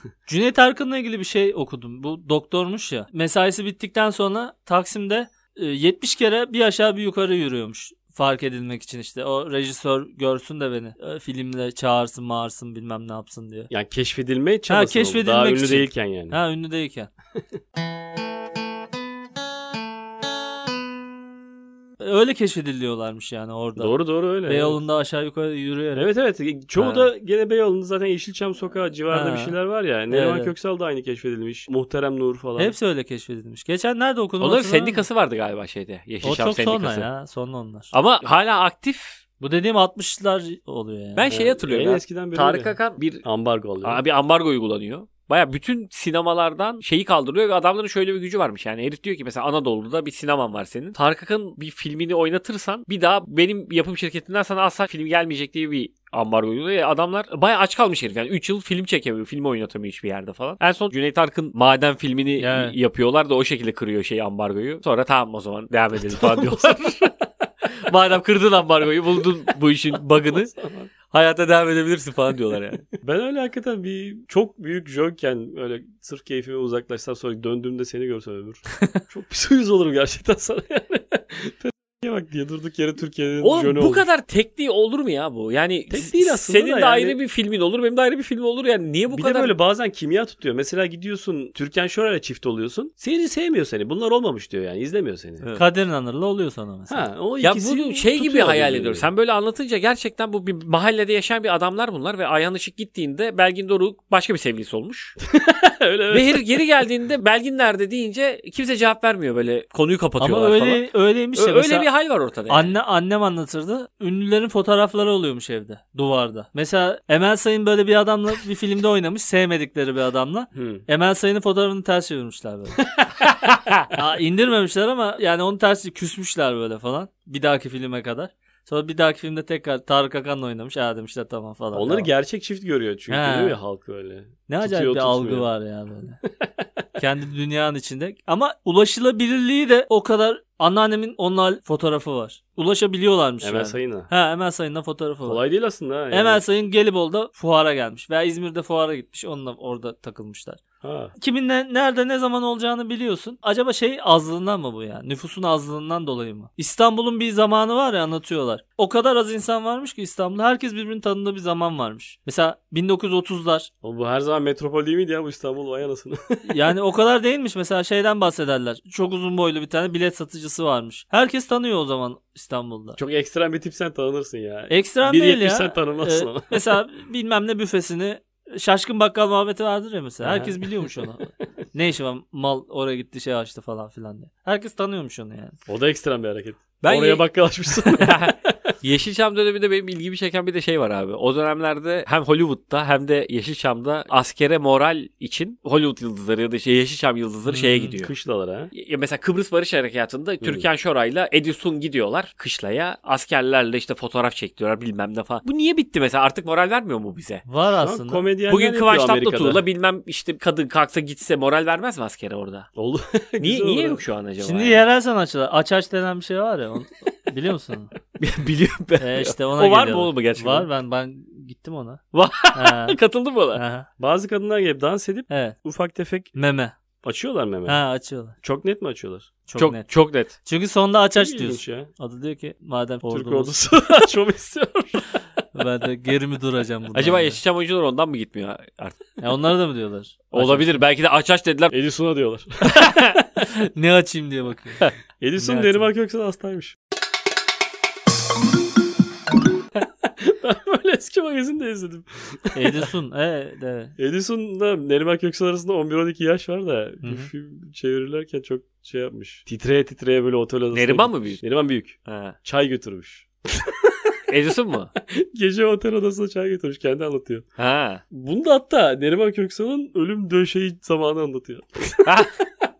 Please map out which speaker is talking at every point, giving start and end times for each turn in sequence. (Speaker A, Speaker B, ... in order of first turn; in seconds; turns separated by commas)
Speaker A: 0.3-13.7, Speaker B: 13.7-16.4, Speaker A: 14.7-17.1, Speaker A: 22.0-26.1, Speaker B: 23.8-24.8, Speaker B: 25.9-32.7, Speaker A: 29.1-29.6, Speaker A: 30.1-30.5, Speaker A: 32.6-35.0, Speaker C: 34.4-37.1, Speaker A: 36.2-37.9, Speaker C: 37.9-39.2, Speaker A: 39.4-41.3, Speaker C: 41.1-43.2, Speaker B: 41.3-44.0, Speaker C: 43.8-67.1, Speaker A: 62.4-62.8, Speaker B: 66.0-66.9, Speaker C: 67.8-70.5, Speaker B: 70.1-70.9, Speaker C: 71.1-72.8, Speaker B: 73.0-84.0, Speaker C: 83.4-89.5, Speaker B: 85.9-87.2, Speaker B: 89.1-95.4, Speaker A: 95.5-97.0, Speaker B: 96.9-99.1, Speaker C: 97.4-105.2, Speaker B: 105.3-106.6, Speaker C: 106.1-112.8, Speaker A: 110.2-111.9, Speaker A: 112.5-122.8, Speaker B: 120.5-120.8, Speaker C: 123.2-123.8, Speaker A: 123.9-132.1, Speaker B: 131.7-135.5, Speaker A: 133.1-133.6, Speaker A: 134.5-136.2, Speaker A: 137.0-145.4, Speaker B: 143.4-144.1, Speaker B: 145.2-146.4, Speaker A: 146.1-150.6, Speaker B: 150.8-151.1, Speaker A: 151.2-163.7, Speaker B: 163.8-166.5, Speaker A: 166.4-173.0, Speaker B: 173.0-176.6, Speaker A: 174.7-185.6, Speaker B: 180.2-180.6, Speaker B: 185.7-188.6, Speaker C: 186.8-187.3, Speaker C: 187.8-198.1, Speaker A: 197.5-197.9, Speaker B: 198.0-198.7, Speaker C: 198.7-207.4, Speaker B: 200.4-200.7, Speaker A: 207.4-208.2, Speaker B: 207.8-209.6, Speaker C: 208.5-212.7, Speaker B: 212.8-214.0, Speaker C: 213.4-214.8, Speaker A: 214.4-217.9, Speaker C: 218.2-220.7, Speaker A: 219.0-223.0, Speaker C: 222.1-223.6, Speaker A: 223.5-223.9, Speaker B: 224.0-226.4, Speaker A: 225.3-225.6, Speaker A: 226.3-226.8, Speaker B: 227.0-227.8, Speaker A: 227.7-228.3, Speaker B: 228.4-229.3, Speaker A: 229.5-233.6, Speaker C: 229.6-230.3, Speaker B: 231.2-231.9, Speaker B: 233.1-235.1, Speaker A: 235.5-237.4, Speaker C: 236.9-239.2, Speaker A: 239.2-240.8, Speaker C: 240.3-241.7, Speaker B: 241.7-242.9, Speaker C: 242.8-243.1, Speaker A: 243.4-244.8, Speaker B: 245.2-246.8, Speaker A: 245.4-245.9, Speaker B: 250.0-252.9, Speaker A: 252.5-253.9, Speaker B: 254.0-264.1, Speaker A: 257.0-257.3, Speaker C: 260.7-261.4, Speaker C: 262.1-262.4, Speaker C: 264.3-264.9, Speaker B: 265.0-267.4, Speaker C: 267.6-268.0, Speaker B: 268.1-272.3, Speaker C: 272.0-272.3